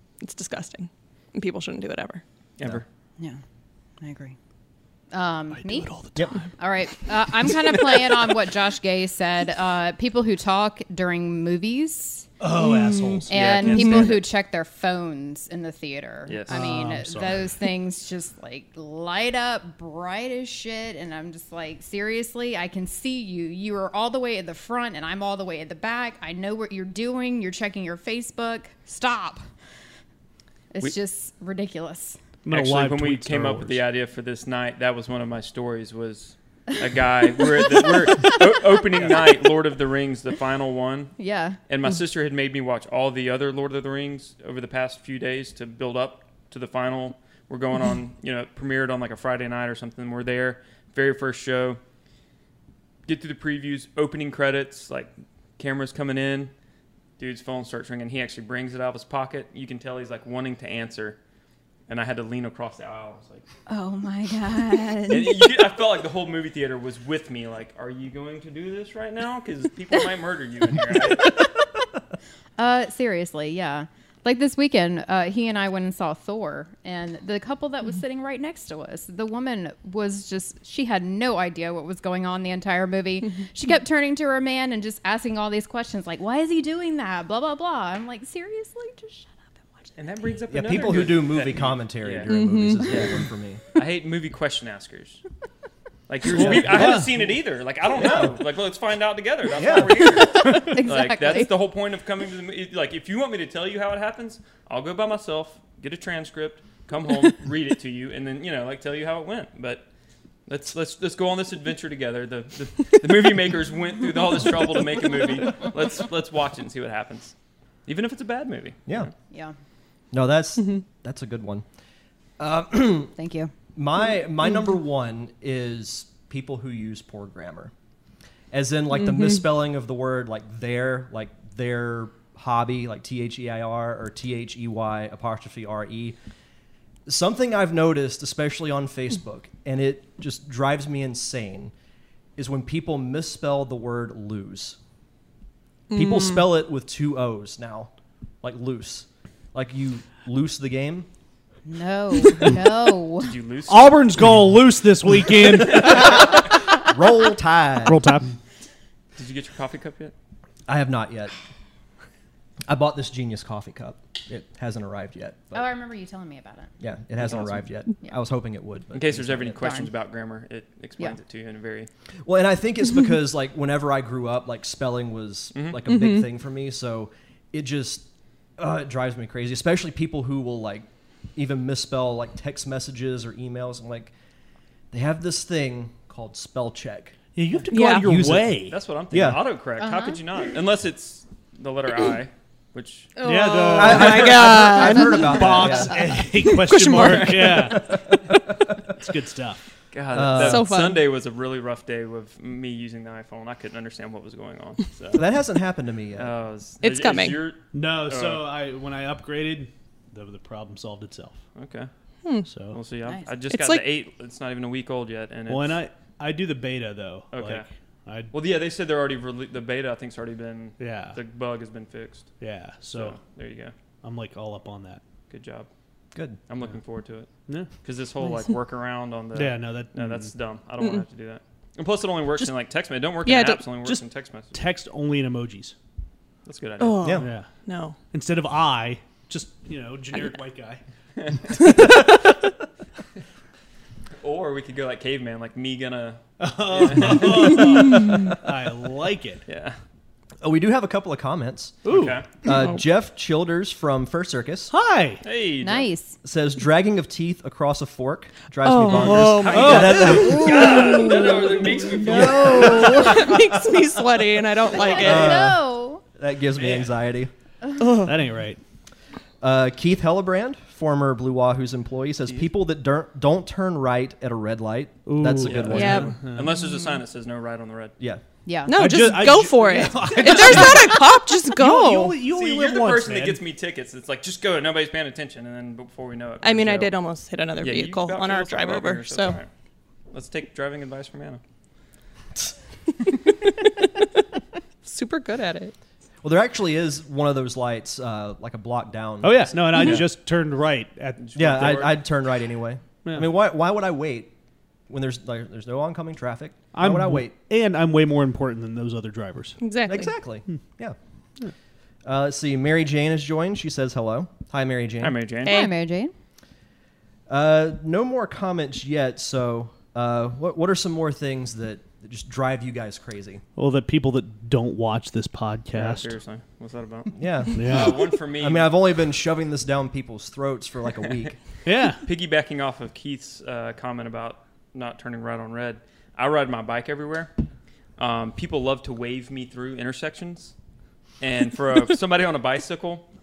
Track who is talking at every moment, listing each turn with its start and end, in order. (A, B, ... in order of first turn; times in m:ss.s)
0:00.2-0:02.2 A
0:02.6-0:02.8 B
0:04.0-0:04.4 C
0:05.1-0:05.9 C
0:05.5-0:06.5 D
0:06.6-0:12.3 C
0:12.4-0:13.5 D
0:12.6-0:14.2 A
0:13.3-0:29.4 C
0:13.3-0:14.2 B
0:16.3-0:16.6 B
0:16.5-0:17.5 D
0:30.7-0:32.2 C
0:32.4-0:33.8 D
0:32.5-0:41.2 B
0:41.2-0:41.6 C
0:41.7-0:51.8 B
0:53.1-0:56.5 B
0:57.2-1:01.2 B
1:01.9-1:03.4 B
1:03.7-1:05.4 C
1:05.1-1:11.4 B
1:12.6-1:30.0 C
1:30.0-1:32.3 B
1:30.5-1:33.6 E
1:32.3-1:32.9 A
1:33.8-1:35.2 B
1:36.1-1:49.9 B
1:36.3-1:37.2 D
1:36.3-1:37.0 E
1:38.0-1:38.4 E
1:39.6-1:40.2 E
1:40.0-1:41.6 C
1:50.5-1:57.3 B
1:57.9-1:59.1 B
2:00.1-2:01.6 E
2:02.4-2:03.2 E
2:03.2-2:03.5 C
2:03.7-2:07.7 E
2:08.5-2:16.2 E
2:17.1-2:21.7 E
2:22.4-2:24.8 E
2:25.9-2:26.5 A
2:25.9-2:27.9 E
2:28.4-2:31.1 E
2:31.7-2:33.3 C
2:33.2-2:34.0 B
2:33.7-2:36.4 D
2:35.7-2:36.1 B
2:35.8-2:38.0 E
2:37.9-2:38.4 D
2:39.2-2:40.2 B
2:40.7-2:41.3 E
2:42.7-2:45.7 E
2:45.5-2:46.7 C
2:46.8-2:49.7 E
2:47.2-2:47.6 B
2:48.9-2:51.9 B
2:49.6-2:49.9 C
2:52.2-2:58.1 E
2:55.9-2:56.3 A
2:58.6-3:04.1 E
3:04.9-3:07.2 E
3:07.4-3:08.8 D
3:07.7-3:08.1 A
3:08.0-3:09.5 E
3:08.7-3:13.1 B
3:09.8-3:10.2 C
3:13.2-3:17.8 A
3:13.2-3:19.6 D
3:13.7-3:16.1 E
3:17.0-3:17.6 B
3:17.7-3:18.8 E
3:19.9-3:25.2 B
3:20.1-3:20.7 E
3:20.3-3:21.0 A
3:25.1-3:26.3 E
3:26.2-3:28.4 B
3:26.8-3:27.4 A
3:27.7-3:31.4 D
3:31.6-3:31.9 B
3:32.2-3:32.5 A
3:32.5-3:32.8 D
3:32.7-3:35.8 B
3:33.1-3:33.3 C
3:33.5-3:33.8 A
3:35.5-3:38.3 D
3:37.3-3:37.7 B
3:38.3-3:42.3 B
3:40.8-3:41.2 D
3:42.4-3:43.2 D
3:42.9-3:43.7 B
3:44.0-3:45.0 D
3:45.3-3:45.7 B
3:46.1-3:46.4 E
3:46.5-3:54.6 B
3:49.3-3:50.3 D
3:53.2-3:53.6 A
3:53.8-3:55.8 D
3:56.4-3:57.2 B
3:56.8-3:58.0 A
3:57.0-3:57.3 E
3:57.2-3:57.5 D
3:58.1-4:00.8 D
4:04.2-4:08.0 B
4:06.4-4:09.4 D
4:09.5-4:09.8 B
4:10.4-4:11.8 E
4:11.8-4:12.3 B
4:11.9-4:12.2 D
4:12.4-4:14.7 E
4:14.7-4:15.2 D
4:15.2-4:15.9 B
4:15.6-4:16.2 C
4:16.2-4:20.8 E
4:18.6-4:25.4 A
4:18.9-4:23.1 B
4:19.1-4:20.3 D
4:22.0-4:23.4 E
4:24.7-4:26.0 C
4:24.8-4:25.2 B
4:25.0-4:27.3 E
4:26.6-4:26.9 D
4:27.8-4:28.2 A
4:28.0-4:28.6 D
4:29.4-4:36.2 E
4:35.1-4:36.6 D
4:35.4-4:38.0 B
4:35.7-4:36.2 A
4:38.4-4:38.7 C
4:38.7-4:42.2 A
4:38.7-4:43.4 D
4:42.2-4:46.9 B
4:46.4-4:49.4 A
4:47.6-4:49.5 B
4:50.1-4:51.4 B
4:54.8-4:55.7 A
4:56.2-5:00.1 E
4:59.2-5:01.9 D
5:01.2-5:02.0 B
5:01.4-5:04.3 E
5:03.0-5:03.3 D
5:04.9-5:07.4 E
5:06.7-5:09.6 D
5:09.6-5:10.1 A
5:09.8-5:11.0 E
5:12.0-5:15.2 E
5:15.0-5:15.6 B
5:15.4-5:15.8 A
5:15.5-5:16.1 C
5:17.3-5:23.4 E
5:23.6-5:26.1 D
5:25.7-5:28.8 B
5:27.2-5:31.4 E
5:27.6-5:28.0 D
5:31.6-5:32.0 D
5:32.0-5:37.3 B
5:38.0-5:40.6 B
5:41.2-5:43.1 B